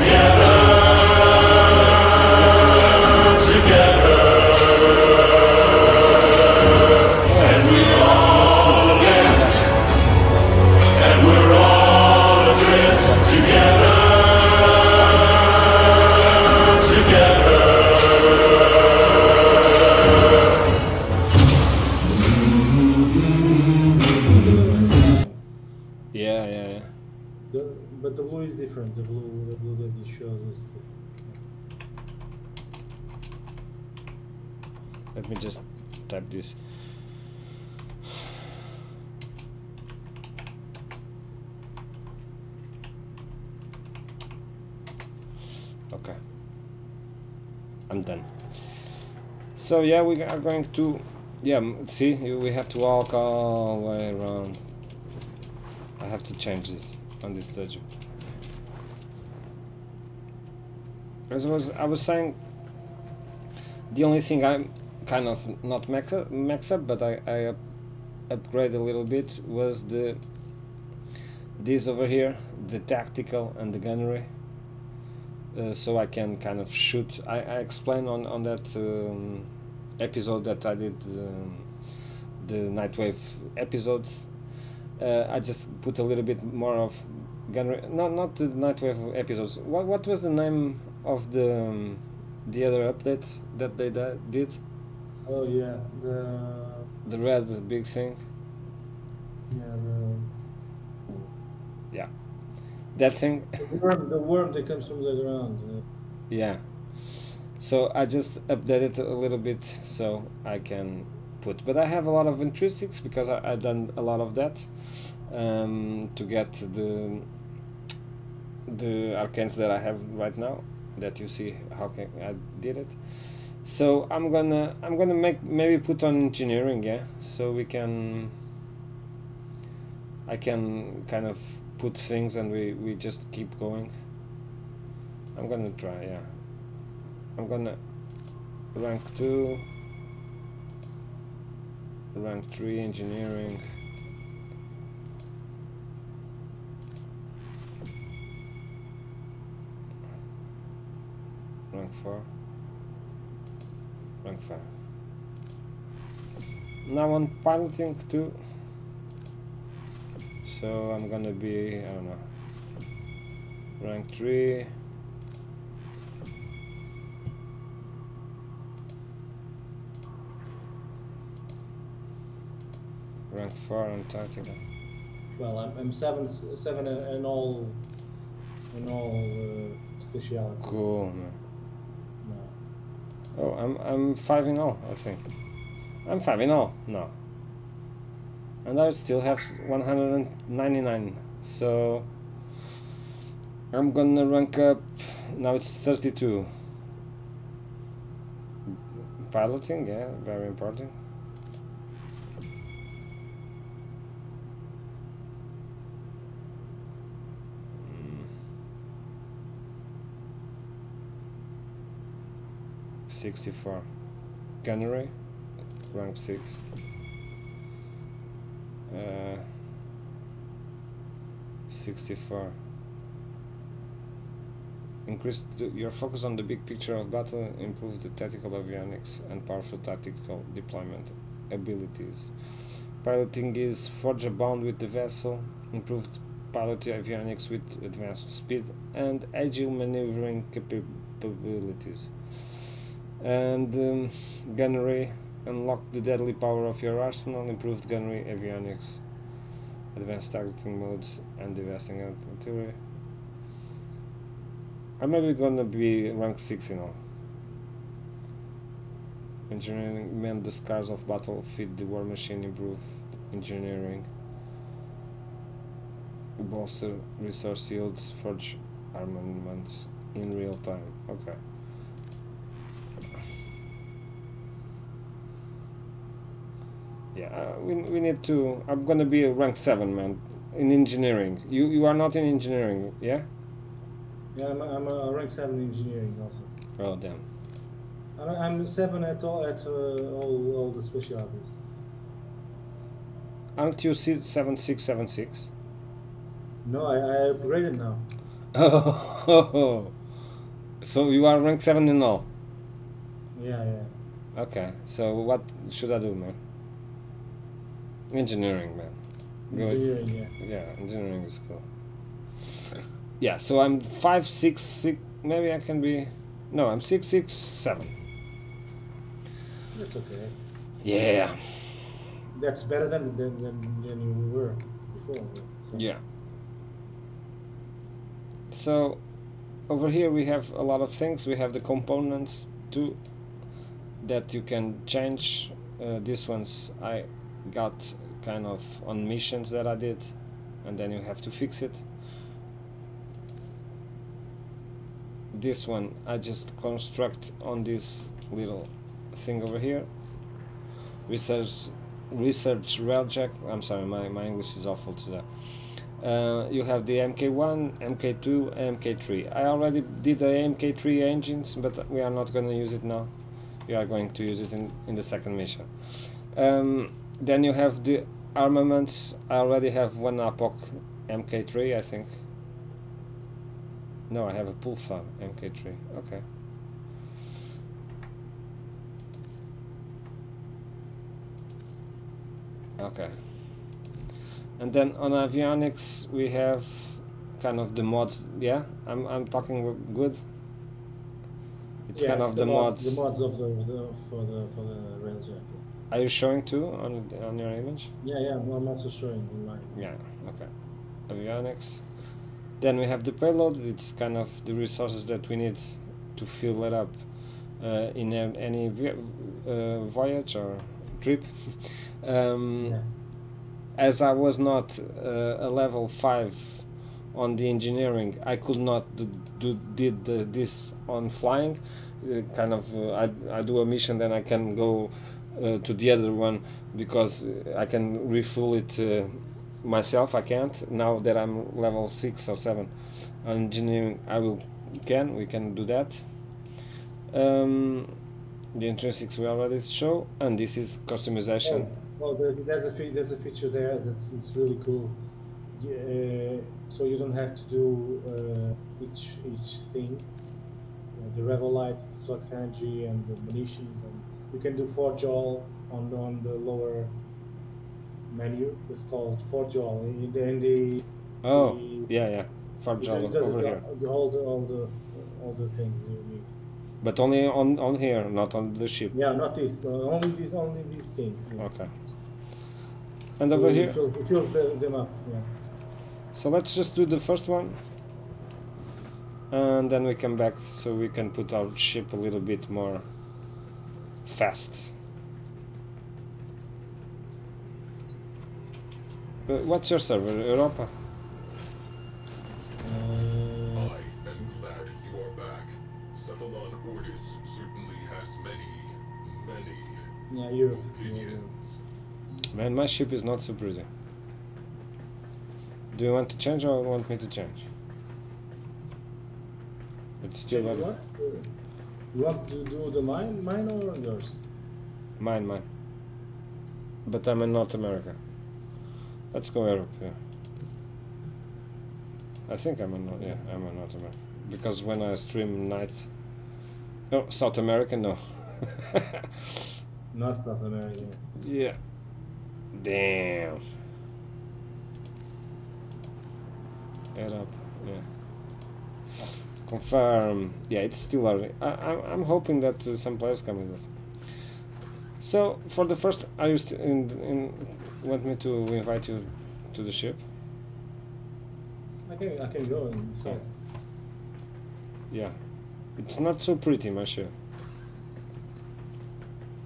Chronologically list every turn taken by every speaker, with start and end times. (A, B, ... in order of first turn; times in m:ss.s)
0:00.3-0:03.8 A
0:07.2-0:09.8 A
0:23.6-0:25.4 B
0:26.1-0:26.9 A
0:27.5-0:31.4 B
0:35.1-0:36.6 A
0:45.9-0:46.2 A
0:47.9-0:48.9 A
0:49.6-0:54.6 A
0:56.0-0:57.8 A
1:01.3-1:02.4 A
1:03.9-1:07.6 A
1:08.3-1:10.2 A
1:11.6-1:14.3 A
1:15.5-1:21.7 A
1:22.4-1:24.3 A
1:25.0-1:34.6 A
1:35.3-1:36.9 B
1:37.0-1:38.2 A
1:39.5-1:40.3 B
1:42.9-1:43.8 A
1:43.6-1:45.8 B
1:46.3-1:57.3 A
1:58.7-2:03.0 A
2:03.6-2:08.3 A
2:10.3-2:13.9 A
2:15.3-2:16.3 A
2:17.4-2:17.8 A
2:18.7-2:19.6 A
2:22.1-2:23.6 A
2:31.7-2:32.3 A
2:34.2-2:34.7 A
2:36.8-2:38.4 A
2:40.4-2:42.2 A
2:43.8-2:44.7 A
2:53.3-2:54.6 A
2:55.4-2:57.8 B
2:58.7-3:00.8 B
3:00.6-3:01.4 A
3:02.2-3:02.5 B
3:03.4-3:05.3 A
3:06.0-3:07.1 A
3:08.6-3:12.1 A
3:13.7-3:16.5 A
3:19.2-3:21.0 A
3:27.8-3:28.3 A
3:33.1-3:33.9 A
3:34.6-3:35.1 A
3:35.9-3:36.6 A
3:38.9-3:39.4 A
3:41.7-3:42.6 A
3:45.1-3:52.4 A
3:53.0-4:02.7 A
4:03.2-4:09.0 A
4:09.9-4:12.8 A
4:15.0-4:17.0 A
4:19.5-4:24.1 A
4:26.4-4:31.4 A
4:37.1-4:43.3 A
4:44.3-4:46.5 B
4:46.8-4:47.2 A
4:48.2-4:51.5 B
4:53.6-4:55.5 A
4:56.6-4:58.1 B
4:58.5-5:00.0 A
5:00.8-5:02.3 A
5:03.4-5:03.9 B
5:04.4-5:06.4 A
5:08.1-5:09.0 A
5:09.5-5:10.3 B
5:09.5-5:11.6 A
5:13.2-5:17.9 A
5:19.7-5:20.4 B
5:20.8-5:21.9 A
5:22.3-5:25.8 B
5:25.7-5:26.0 A
5:28.5-5:29.0 A
5:29.7-5:33.0 A
5:34.0-5:40.1 A
5:40.6-5:41.8 A
5:45.3-5:49.9 A
5:51.1-5:55.3 A
5:56.0-6:03.1 A
6:03.6-6:12.2 A
6:14.1-6:16.2 A
6:22.8-6:23.2 A
6:24.6-6:30.2 A
6:31.9-6:33.0 A
6:31.9-6:35.6 B
6:35.9-6:37.9 A
6:38.0-6:39.8 B
6:39.8-6:40.5 A
6:41.1-6:41.8 A
6:42.6-6:47.0 A
6:47.6-6:52.8 A
6:53.8-7:16.1 A
7:17.1-7:18.0 A
7:18.5-7:21.7 A
7:21.4-7:25.0 B
7:25.6-7:30.1 B
7:31.0-7:37.0 B
7:38.1-7:41.9 B
7:41.2-7:43.6 A
7:42.8-7:46.3 B
7:46.8-7:49.0 A
7:48.9-7:51.5 B
7:51.4-7:51.7 A
7:53.2-7:53.8 A
7:53.3-7:55.3 B
7:56.1-7:57.6 A
7:59.3-8:02.9 A
8:04.0-8:04.7 A
8:09.3-8:10.7 A
8:12.6-8:13.7 B
8:13.5-8:19.8 C
8:20.1-8:21.3 B
8:20.5-8:21.6 C
8:22.3-8:23.7 A
8:25.7-8:27.5 A
8:30.0-8:30.7 A
8:30.3-8:31.3 B
8:31.9-8:34.2 B
8:35.0-8:35.4 A
8:36.8-8:38.0 A
8:39.1-8:40.0 A
8:42.3-8:45.9 A
8:46.9-8:49.5 A
8:49.9-8:51.0 B
8:51.2-8:51.6 A
8:52.5-8:53.4 A
8:56.9-8:57.8 A
8:59.4-9:03.7 A
9:05.0-9:10.0 A
9:11.9-9:13.3 B
9:14.9-9:15.2 A
9:15.8-9:17.1 A